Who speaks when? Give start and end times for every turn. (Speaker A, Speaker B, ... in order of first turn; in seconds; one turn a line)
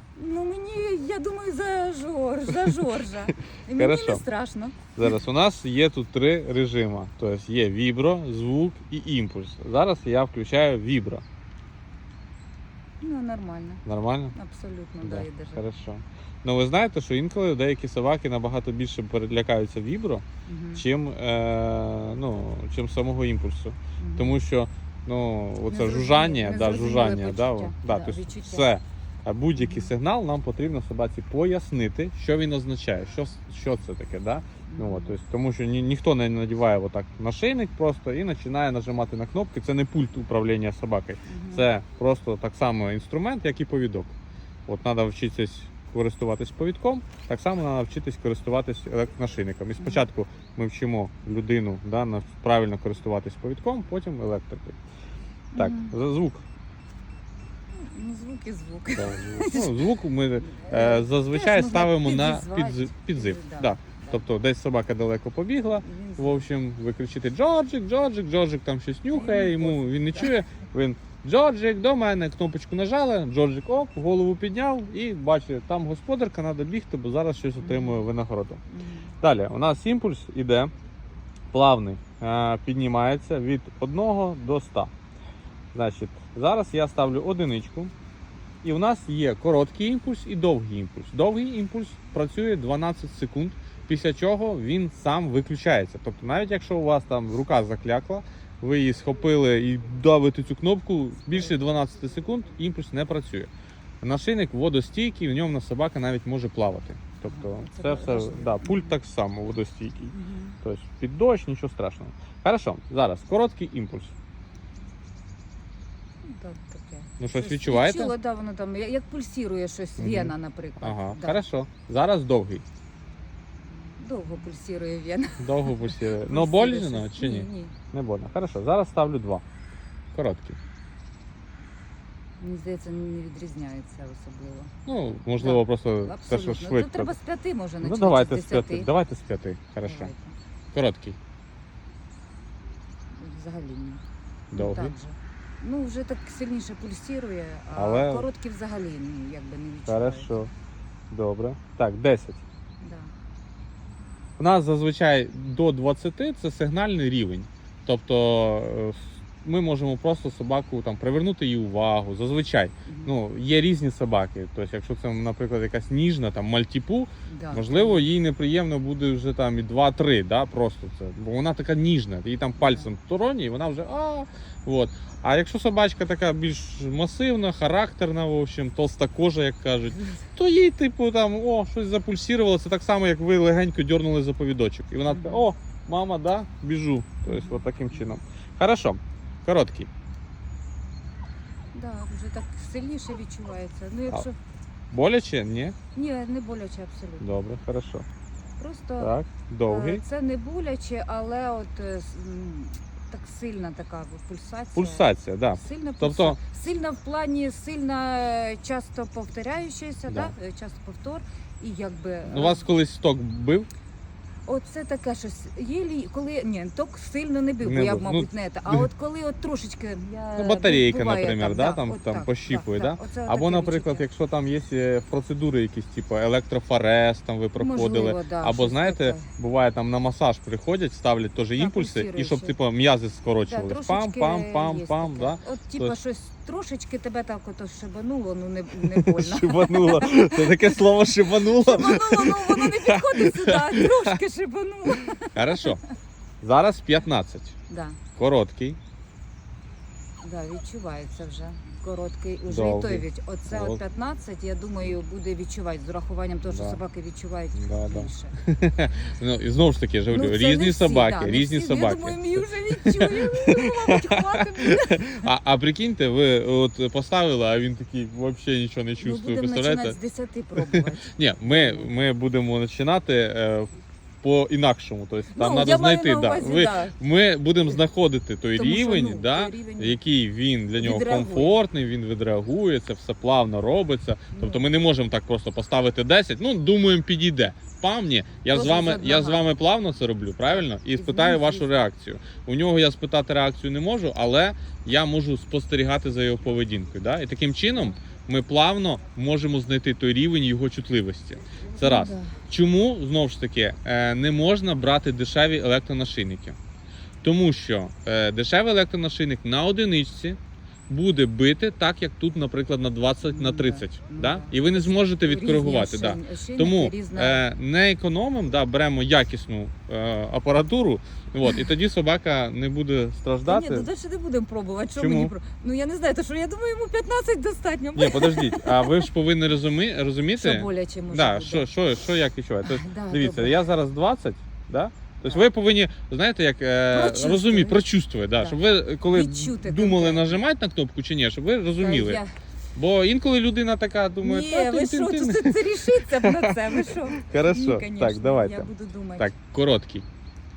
Speaker A: 0.1-5.1
Speaker B: 3.8-4.2
Speaker B: 5.0-11.2
Speaker A: 13.0-15.6
Speaker B: 13.8-14.3
Speaker B: 15.0-20.2
Speaker A: 20.4-20.8
Speaker B: 20.7-44.1
Speaker A: 24.0-24.4
Speaker A: 25.7-28.7
Speaker A: 29.6-29.9
Speaker A: 34.7-35.1
Speaker A: 41.3-41.6
Speaker B: 44.7-54.8
Speaker A: 55.5-55.9
Speaker B: 55.5-56.4
Speaker A: 57.7-59.9
Speaker B: 58.9-78.6
Speaker A: 60.5-64.2
Speaker A: 65.8-66.5
Speaker A: 69.1-70.3
Speaker A: 77.6-78.1
Speaker A: 78.7-79.1
Speaker B: 79.2-80.7
Speaker B: 81.5-84.9
Speaker B: 85.7-87.9
Speaker B: 88.6-103.5
Speaker B: 104.0-114.1
Speaker A: 107.2-109.0
Speaker A: 110.1-110.5
Speaker A: 116.2-121.4
Speaker B: 117.2-118.1
Speaker B: 120.0-122.6
Speaker A: 123.9-127.8
Speaker B: 125.4-129.4
Speaker B: 130.1-130.6
Speaker A: 132.4-134.7
Speaker B: 134.8-137.1
Speaker A: 135.4-138.9
Speaker B: 137.8-140.1
Speaker A: 139.8-140.3
Speaker B: 140.7-141.2
Speaker A: 143.1-144.0
Speaker B: 144.5-144.9
Speaker A: 144.5-150.3
Speaker B: 147.7-148.3
Speaker B: 149.9-150.5
Speaker B: 151.1-152.4
Speaker A: 152.8-153.1
Speaker B: 154.4-189.9
Speaker A: 162.8-163.1
Speaker A: 167.2-168.1
Speaker A: 172.6-172.9
Speaker A: 185.1-185.5
Speaker A: 187.2-187.7
Speaker A: 191.7-194.3
Speaker B: 194.9-195.8
Speaker A: 195.9-197.2
Speaker B: 197.2-198.0
Speaker A: 198.6-199.1
Speaker B: 199.0-200.0
Speaker A: 199.7-212.7
Speaker B: 204.7-206.4
Speaker B: 212.3-213.7
Speaker A: 214.4-224.0
Speaker B: 217.6-218.9
Speaker B: 220.3-235.9
Speaker A: 227.6-229.3
Speaker A: 231.6-232.6
Speaker A: 233.4-245.7
Speaker B: 238.8-244.2
Speaker B: 245.3-245.8
Speaker B: 246.4-247.5
Speaker A: 247.7-248.0
Speaker B: 248.1-248.8
Speaker A: 250.2-258.3
Speaker B: 252.5-253.8
Speaker B: 256.5-256.8
Speaker B: 257.5-270.0
Speaker A: 260.1-265.3
Speaker A: 269.0-271.9
Speaker B: 270.7-306.6
Speaker A: 275.3-276.9
Speaker A: 278.5-280.0
Speaker A: 280.8-281.6
Speaker A: 284.3-284.6
Speaker A: 288.5-289.5
Speaker A: 290.9-291.9
Speaker A: 301.8-302.4
Speaker B: 307.2-323.9
Speaker A: 313.2-317.4
Speaker A: 323.4-329.1
Speaker B: 325.0-325.3
Speaker B: 327.9-342.2
Speaker A: 330.4-331.7
Speaker A: 332.6-333.6
Speaker A: 336.9-337.8
Speaker A: 338.4-340.3
Speaker A: 341.7-342.3
Speaker B: 342.8-350.1
Speaker A: 344.2-349.3